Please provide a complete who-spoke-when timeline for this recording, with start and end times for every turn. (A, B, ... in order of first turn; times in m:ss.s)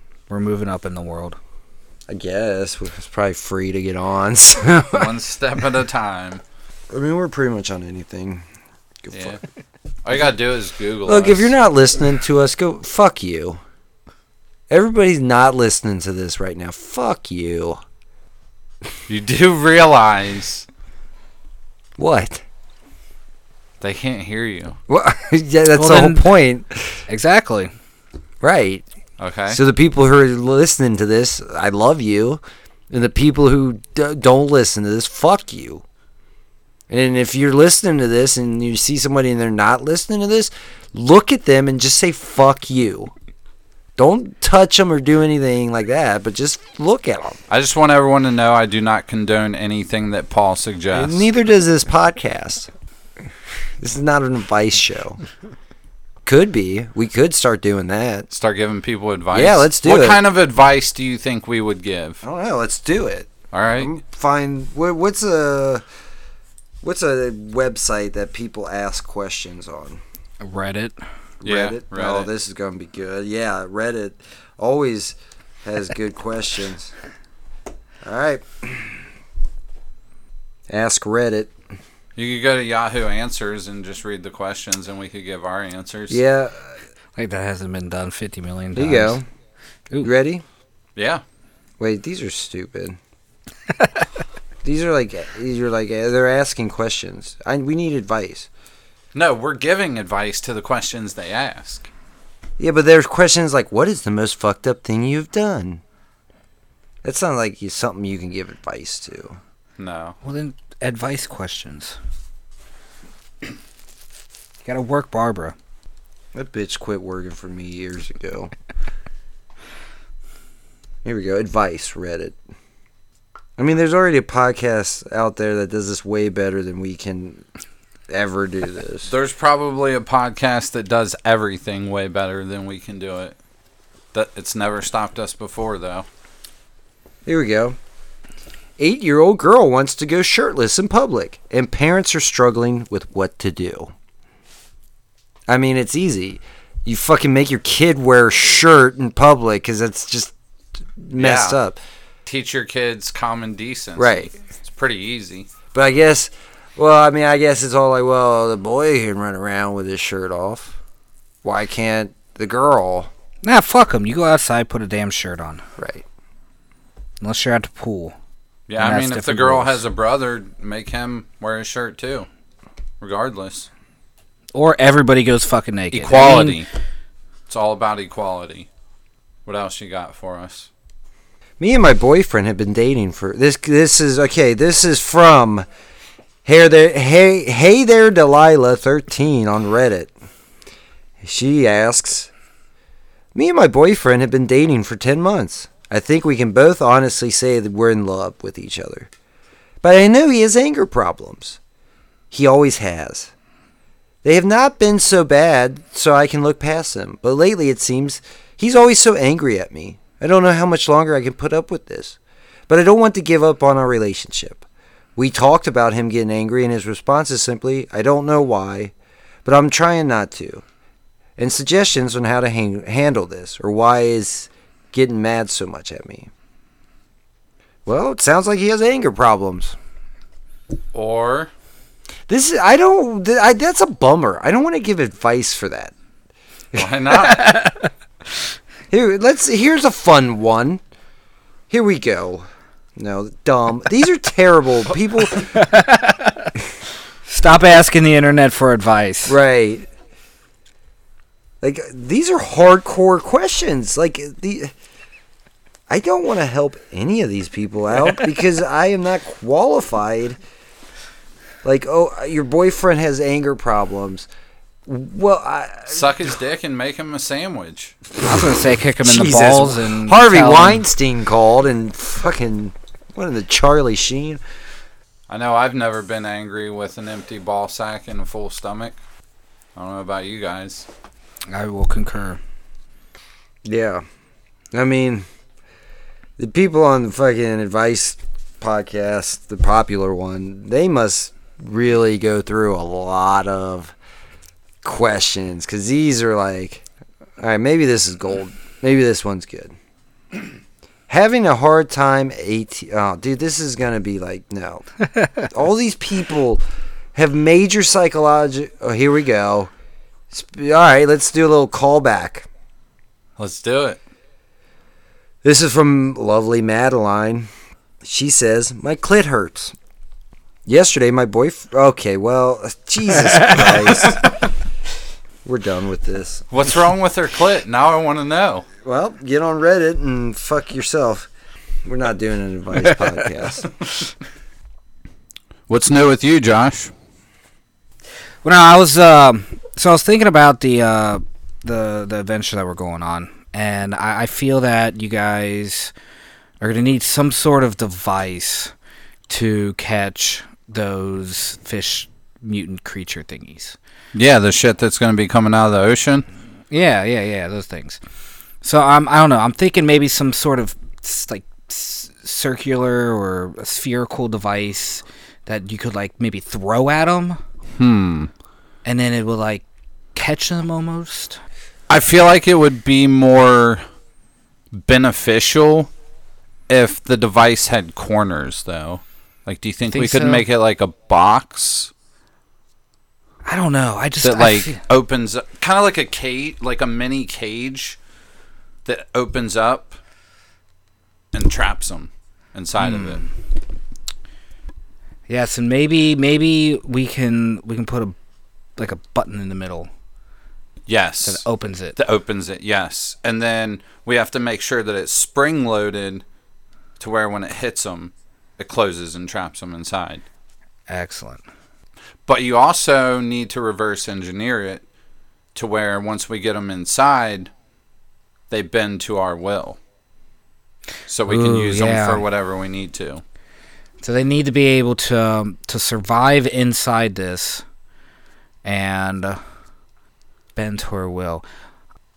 0:00.3-0:01.4 A
0:02.1-0:05.2 B
0:04.9-0:06.4 C
0:06.9-0:08.4 B
0:09.0-0:09.4 B
0:09.1-0:09.4 C
0:10.0-0:11.5 C
0:11.0-0:13.6 B
0:14.7-0:17.8 B
0:19.1-0:20.6 C
0:22.0-0:22.4 B
0:23.8-0:24.8 C
0:24.9-0:27.0 B
0:25.7-0:26.2 A
0:27.1-0:27.7 A
0:28.4-0:28.8 B
0:29.2-0:29.6 C
0:29.5-0:35.8 B
0:36.9-0:43.1 B
0:44.0-0:47.4 B
0:47.5-0:51.3 C
0:50.9-0:52.7 B
0:53.8-0:55.2 B
0:56.2-0:58.3 B
0:58.3-1:02.2 C
0:59.3-1:00.2 B
1:02.2-1:05.8 B
1:03.5-1:03.9 C
1:06.8-1:10.0 B
1:10.4-1:11.0 A
1:11.4-1:12.3 C
1:11.4-1:16.9 B
1:18.0-1:19.0 B
1:20.7-1:21.5 B
1:22.2-1:26.2 C
1:26.1-1:26.7 B
1:27.2-1:29.2 A
1:28.7-1:29.2 B
1:30.0-1:30.4 B
1:31.0-1:31.2 C
1:31.8-1:33.0 B
1:34.6-1:38.5 B
1:39.1-1:41.9 C
1:42.6-1:45.8 B
1:47.0-1:49.4 B
1:49.8-1:50.2 C
1:50.2-1:52.0 A
1:54.6-1:55.5 A
1:56.3-1:58.5 B
2:01.0-2:02.4 B
2:03.6-2:07.4 B
2:08.1-2:09.1 B
2:09.1-2:13.3 C
2:14.1-2:16.1 C
2:17.2-2:17.8 B
2:18.8-2:23.9 B
2:25.5-2:30.3 B
2:31.0-2:31.8 B
2:31.2-2:31.6 C
2:32.2-2:35.5 C
2:34.0-2:34.3 B
2:35.7-2:40.8 B
2:41.4-2:43.1 B
2:43.4-2:45.6 A
2:45.8-2:46.0 B
2:47.2-2:48.1 A
2:48.7-2:52.3 C
2:48.8-2:49.8 A
2:53.0-2:53.7 C
2:54.5-2:56.6 A
2:55.9-2:56.7 C
2:57.5-2:58.7 C
2:59.4-3:00.7 C
3:01.6-3:05.7 B
3:06.4-3:10.1 B
3:11.2-3:12.3 B
3:13.3-3:19.1 B
3:19.8-3:21.6 B
3:22.3-3:23.3 B
3:24.2-3:34.6 B
3:35.2-3:38.9 B
3:39.4-3:40.6 B
3:41.4-3:46.3 B
3:47.8-3:49.8 B
3:50.9-3:51.5 C
3:52.3-3:55.9 B
3:56.8-3:57.7 C
3:58.9-4:00.8 B
4:01.7-4:05.7 B
4:05.5-4:06.5 A
4:07.3-4:09.4 A
4:09.2-4:09.9 B
4:11.6-4:14.7 B
4:15.9-4:20.4 B
4:21.6-4:24.3 B
4:24.8-4:26.2 B
4:25.9-4:27.9 C
4:28.2-4:30.8 A
4:29.0-4:34.4 B
4:35.3-4:39.0 C
4:39.8-4:40.9 C
4:41.5-4:42.4 A
4:43.6-4:44.0 B
4:44.7-4:45.3 B
4:46.4-4:53.9 B
4:54.8-4:56.8 B
4:57.4-4:59.7 B
5:01.1-5:06.6 B
5:07.1-5:09.7 B
5:10.3-5:12.5 B
5:13.4-5:14.0 C
5:15.4-5:17.5 B
5:18.0-5:19.7 B
5:20.6-5:24.2 B
5:25.4-5:26.5 B
5:26.5-5:28.6 C
5:28.8-5:31.3 B
5:31.8-5:33.7 B
5:35.7-5:36.9 C
5:38.4-5:45.9 A
5:46.6-5:48.7 A
5:49.3-5:53.8 A
5:54.1-5:56.2 C
5:56.7-5:58.0 A
5:58.6-6:07.4 A
6:07.8-6:08.3 C
6:08.8-6:11.4 A
6:11.9-6:13.8 C
6:14.7-6:15.9 C
6:16.7-6:21.9 C
6:19.9-6:20.4 A
6:23.4-6:24.8 A
6:24.2-6:28.0 C
6:28.8-6:30.0 C
6:31.3-6:33.2 C
6:32.8-6:33.2 A
6:35.3-6:38.2 A
6:38.8-6:39.9 A
6:40.9-6:41.4 C
6:41.2-6:42.0 A
6:42.0-6:46.2 C
6:47.0-6:50.2 C
6:50.9-6:51.4 A
6:52.2-6:54.8 C
6:55.5-6:57.5 C
6:58.5-6:59.8 C
7:01.1-7:03.2 C
7:01.3-7:02.2 A
7:04.0-7:07.6 A
7:08.6-7:09.4 A
7:10.6-7:11.4 A